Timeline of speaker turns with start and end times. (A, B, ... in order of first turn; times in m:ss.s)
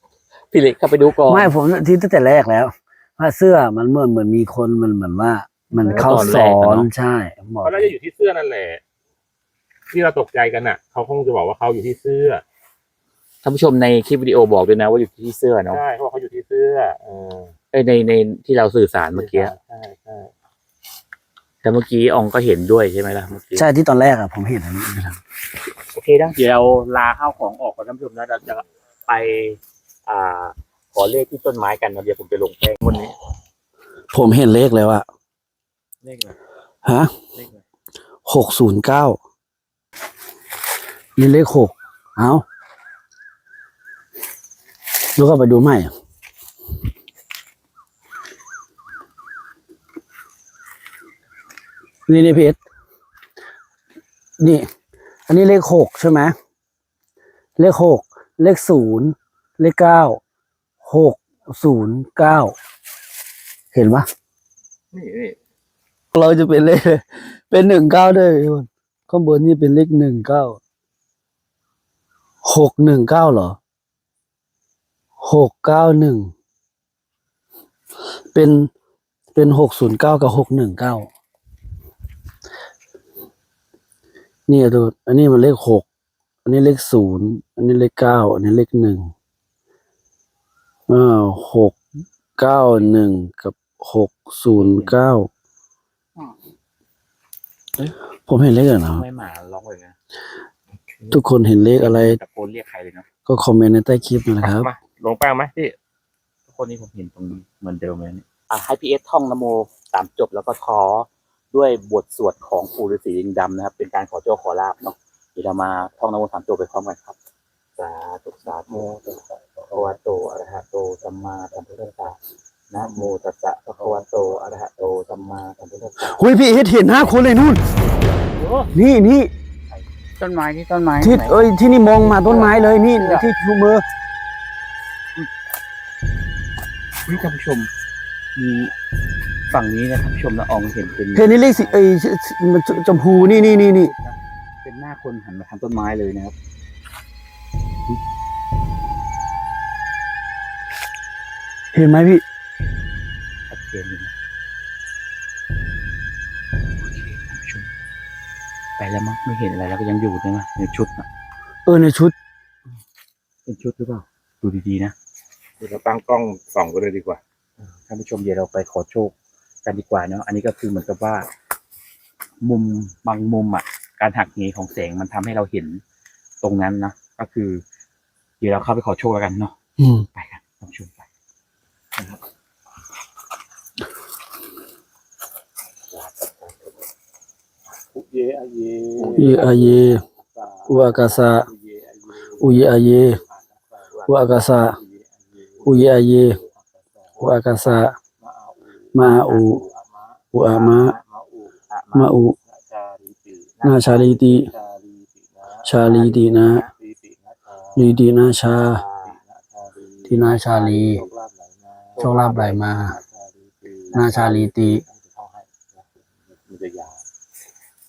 0:00.5-0:01.5 A
0:01.3-0:07.9 B
0:05.7-0:06.6 C
0:05.9-0:06.9 A
0:07.6-0:08.8 C
0:09.9-0:12.4 C
0:13.4-0:15.8 A
0:15.7-0:17.5 C
0:17.7-0:19.5 A
0:19.1-0:20.3 C
0:21.6-0:23.7 A
0:23.6-0:25.2 B
0:25.9-0:33.1 A
0:34.1-0:35.1 B
0:36.0-0:36.4 A
0:36.8-0:37.1 B
0:37.4-0:37.6 A
0:38.3-0:39.2 B
0:41.2-0:42.4 B
0:45.2-0:45.9 B
0:52.1-0:52.6 B
0:54.4-0:54.7 B
0:55.3-0:56.4 B
0:57.6-1:00.2 B
1:00.8-1:02.6 B
1:03.7-1:04.1 B
1:04.9-1:05.4 C
1:06.1-1:10.6 B
1:12.4-1:13.6 B
1:15.2-1:16.3 B
1:18.0-1:18.7 B
1:19.4-1:21.1 B
1:24.5-1:25.9 B
1:26.4-1:29.1 B
1:30.9-1:31.8 B
1:32.4-1:35.3 B
1:32.7-1:33.0 A
1:34.6-1:34.9 A
1:38.3-1:39.0 B
1:38.9-1:40.0 A
1:41.1-1:42.2 B
1:41.8-1:43.1 A
1:43.3-1:44.7 B
1:44.4-1:45.7 C
1:46.5-1:57.2 A
1:57.8-1:58.9 A
1:58.7-1:59.7 C
1:59.7-2:02.2 A
2:02.7-2:06.2 A
2:06.0-2:07.6 B
2:08.4-2:08.7 C
2:08.7-2:09.3 B
2:10.2-2:11.4 D
2:11.0-2:13.8 B
2:12.2-2:13.3 D
2:17.0-2:17.7 A
2:18.4-2:18.7 A
2:19.5-2:21.8 A
2:21.1-2:23.9 B
2:22.7-2:26.3 A
2:31.7-2:32.2 B
2:33.5-2:34.1 A
2:36.8-2:37.7 A
2:38.8-2:41.1 A
2:41.7-2:42.2 B
2:43.5-2:44.9 A
2:45.6-2:47.2 C
2:47.9-2:49.1 A
2:49.6-2:51.3 A
2:52.4-2:55.8 A
2:56.4-2:57.6 A
2:58.4-2:59.6 A
2:59.8-3:00.1 B
3:00.2-3:01.1 A
3:06.0-3:06.5 A
3:07.9-3:17.2 C
3:09.2-3:10.0 B
3:10.7-3:11.5 B
3:12.4-3:13.2 B
3:14.1-3:14.8 B
3:15.6-3:16.4 B
3:17.2-3:18.0 B
3:18.2-3:21.5 C
3:18.9-3:19.6 B
3:20.3-3:21.0 B
3:21.7-3:22.1 A
3:21.9-3:22.4 B
3:22.5-3:28.0 C
3:23.6-3:24.5 B
3:25.6-3:26.7 B
3:27.8-3:28.8 B
3:28.5-3:29.2 A
3:29.0-3:37.0 C
3:30.1-3:31.0 B
3:32.0-3:33.0 B
3:33.9-3:34.8 B